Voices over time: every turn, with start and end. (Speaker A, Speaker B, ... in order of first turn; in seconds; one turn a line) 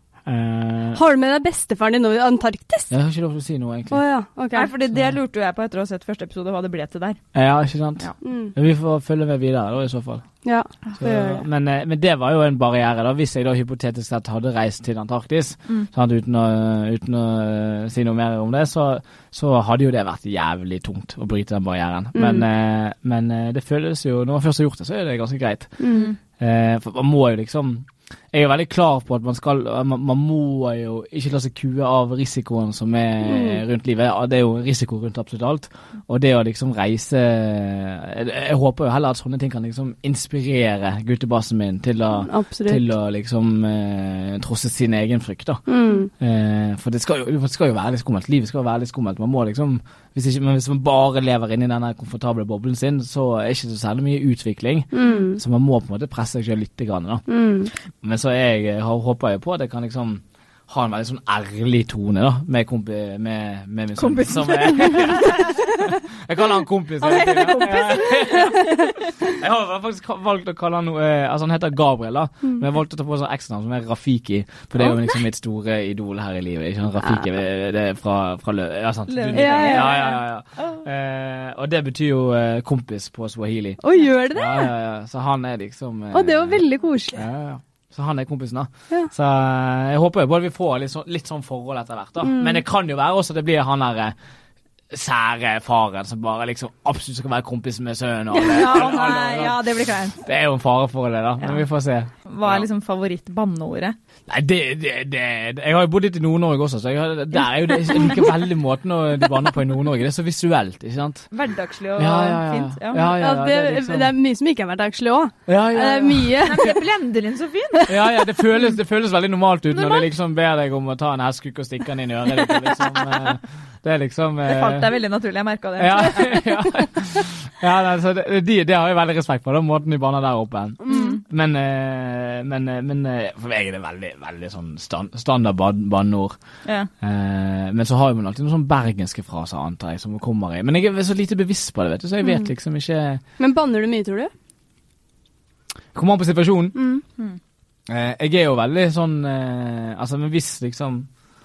Speaker A: 0.2-1.0
Speaker B: 0.9-2.9
Speaker A: 2.9-4.0
Speaker B: 3.9-4.7
Speaker C: 4.5-7.2
Speaker A: 7.3-10.2
Speaker B: 8.2-8.6
Speaker B: 10.4-11.4
Speaker A: 11.0-57.2
Speaker B: 22.1-22.4
Speaker B: 25.8-26.1
Speaker B: 33.2-33.6
Speaker B: 42.2-42.8
Speaker B: 45.7-46.1
Speaker B: 54.9-55.4
Speaker B: 57.3-57.7
Speaker A: 58.0-83.8
Speaker C: 64.0-65.8
Speaker C: 67.0-69.1
Speaker B: 74.8-75.1
Speaker C: 79.1-80.8
Speaker B: 79.3-80.0
Speaker B: 83.8-84.7
Speaker A: 84.3-94.1
Speaker B: 86.1-87.2
Speaker B: 92.2-92.6
Speaker A: 94.9-102.7
Speaker B: 98.5-98.8
Speaker C: 98.5-100.2
Speaker C: 102.2-104.0
Speaker A: 104.3-111.3
Speaker C: 111.3-113.0
Speaker A: 112.0-114.1
Speaker B: 113.0-116.7
Speaker A: 115.5-116.7
Speaker C: 116.4-117.9
Speaker A: 117.9-124.8
Speaker B: 119.7-120.0
Speaker C: 124.5-126.4
Speaker A: 125.8-136.4
Speaker B: 130.8-131.2
Speaker C: 130.9-131.2
Speaker C: 136.6-136.9
Speaker A: 137.0-143.2
Speaker B: 142.2-142.5
Speaker B: 143.4-144.3
Speaker A: 145.9-146.8
Speaker B: 146.7-147.0
Speaker A: 147.9-151.1